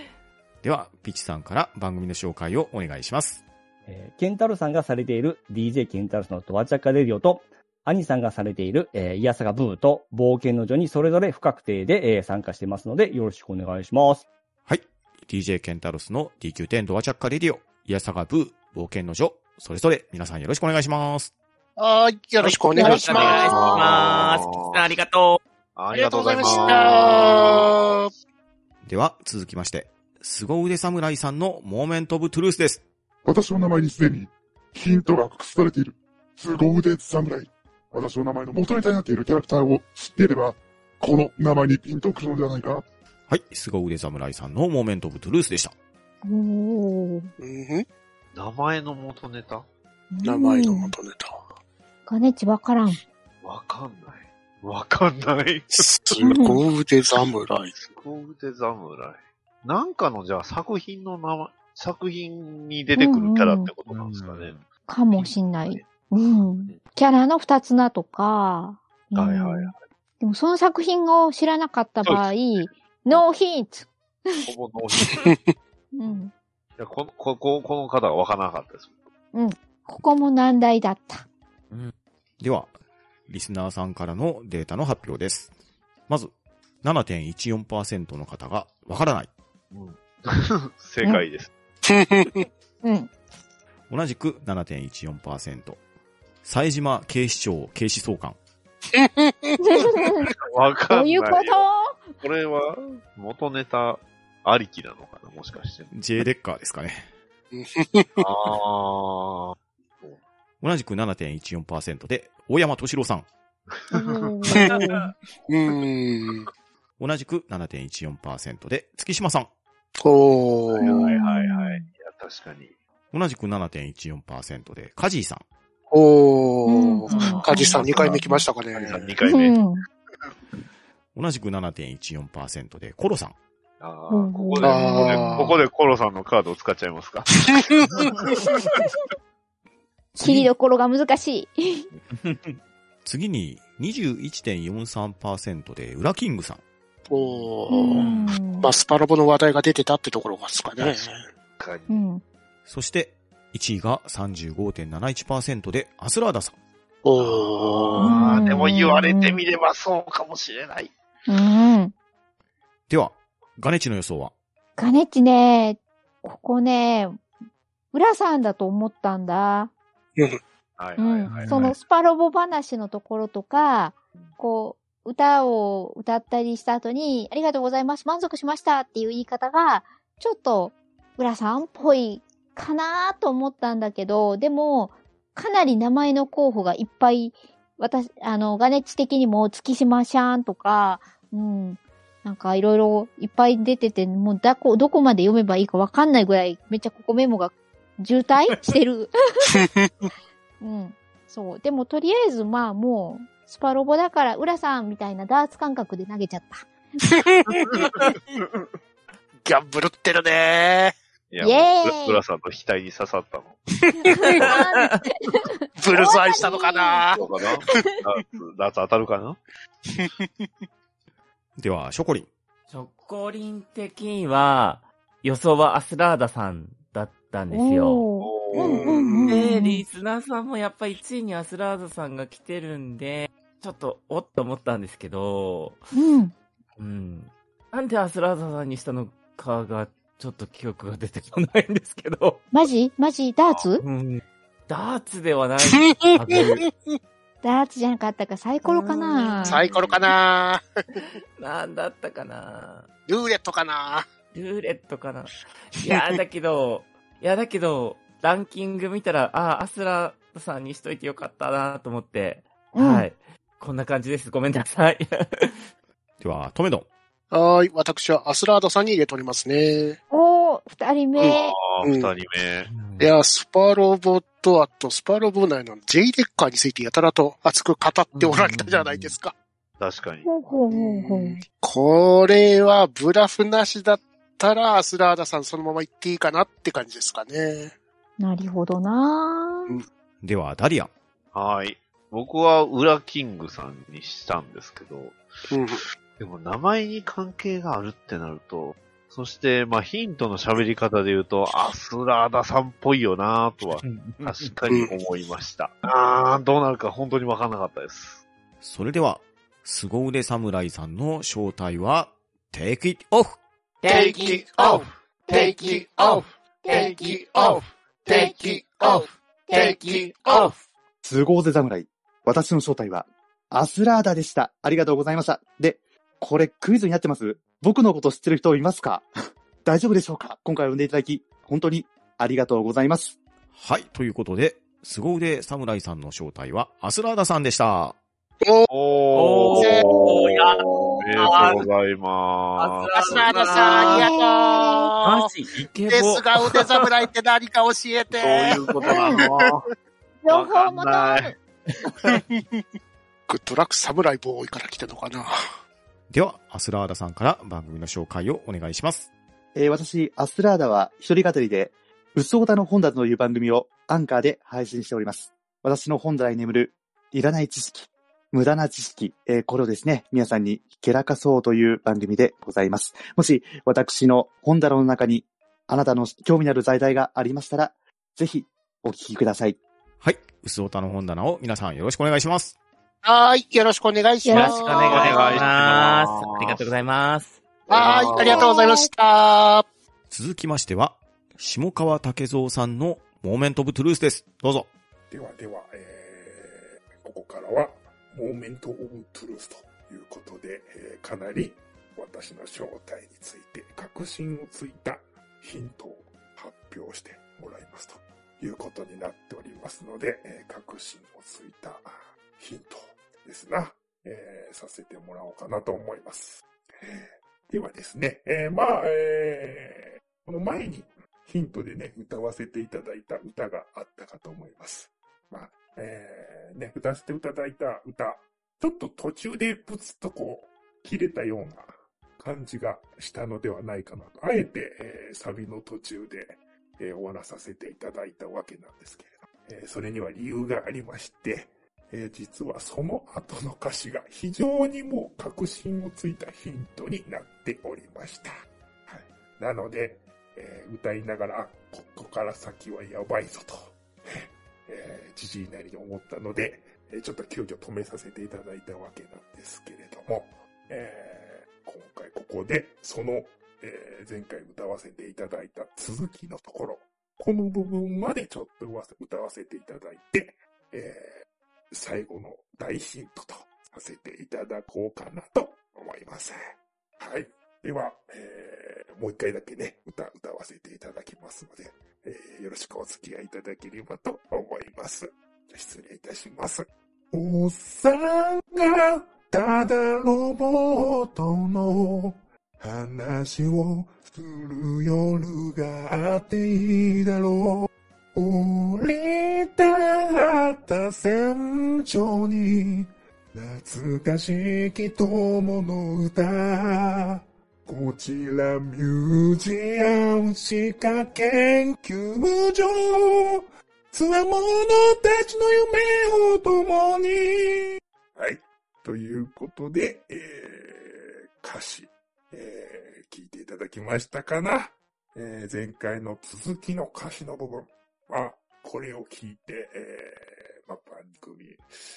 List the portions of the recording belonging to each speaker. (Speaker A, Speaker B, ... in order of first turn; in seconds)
Speaker A: 0.6-3.4, 14.7-21.3, 28.8-32.8, 43.3-45.7, 82.4-82.7, 83.3-85.5, 86.1-89.3, 93.9-95.8, 96.4-98.4, 105.9-107.1, 110.6-113.3, 117.0-119.5, 123.1-125.4, 131.2-133.3, 143.1-146.6, 152.7-156.6, 162.9-164.3, 221.6-222.3, 266.2-266.9, 290.2-290.9, 308.6-313.4, 333.5-338.0, 356.1-359.1, 380.0-382.6, 390.1-394.7
Speaker B: 3.9-14.3
Speaker C: 21.8-23.8, 25.9-28.1, 47.4-47.9, 50.2-51.5, 55.8-57.7, 91.8-92.5, 99.0-99.8, 107.5-108.3, 114.5-115.0, 115.5-116.5, 120.0-121.0, 125.9-129.1, 134.6-135.6, 137.5-137.9, 147.1-151.2, 157.1-158.2, 199.5-199.9, 207.1-207.7, 209.4-210.9, 215.8-217.2, 228.6-229.4, 245.8-246.7, 249.4-250.6, 253.1-254.1, 267.3-270.0, 271.2-272.1, 273.0-279.3, 280.7-287.7, 295.5-295.8, 304.7-304.9, 339.5-340.2, 343.1-345.3, 345.9-349.4, 352.1-352.4, 353.3-355.3, 383.0-385.5, 387.7-389.6
Speaker D: 22.4-25.4, 63.9-64.6, 114.6-114.9, 127.1-127.5, 142.2-142.6, 171.3-171.7, 222.7-228.1, 229.3-235.9, 236.8-242.4, 243.8-246.7, 248.7-250.1, 251.0-252.9, 254.3-265.6, 272.7-273.1, 278.1-279.2, 303.8-304.5, 339.1-341.6, 342.6-344.1, 345.0-347.1, 384.3-387.4
Speaker E: 22.8-24.8, 25.8-27.7, 48.3-49.7, 53.4-55.8, 57.7-64.5, 65.1-65.9, 69.2-69.8, 74.4-75.3, 76.8-78.9, 89.7-91.5, 100.5-101.6, 102.2-105.9, 108.2-110.2, 113.7-114.5, 120.8-122.7, 127.7-128.2, 128.8-129.6, 133.8-137.3, 137.9-138.3, 150.8-151.1, 151.6-152.0, 157.2-160.9, 170.8-171.7, 211.3-213.6, 217.2-219.4, 228.2-228.9, 271.2-272.7, 279.8-280.3, 291.3-295.2, 296.2-308.2, 338.7-340.1, 341.0-343.2, 348.1-349.6, 350.3-351.4, 384.9-386.7, 387.7-388.5
Speaker F: 33.2-42.8
Speaker G: 46.2-47.3, 50.1-50.9, 52.1-53.0, 56.2-56.6, 63.0-63.7, 64.9-74.4, 75.9-76.3, 79.3-81.2, 92.8-93.1, 99.6-100.3, 100.9-102.1, 113.9-114.6, 120.8-121.9, 126.7-127.9, 129.3-129.8, 134.1-135.4, 140.2-141.8, 147.7-148.7, 151.9-152.2, 158.0-159.4, 161.3-161.9, 164.8-167.2, 167.9-169.7, 171.0-199.1, 200.6-206.7, 211.4-212.2, 214.1-217.1, 227.5-229.8, 235.9-236.3, 242.5-243.8, 247.4-249.7, 262.8-263.1, 270.1-271.5, 280.2-281.4, 288.2-289.8, 316.7-317.0, 344.1-344.8, 348.8-349.2, 350.2-351.4, 384.2-384.6, 388.2-388.9
Speaker H: 313.8-320.6
Speaker I: 321.0-329.1, 329.6-333.2, 359.6-379.6
Speaker J: 395.1-448.3, 448.9-471.1, 471.7-476.4, 477.0-531.6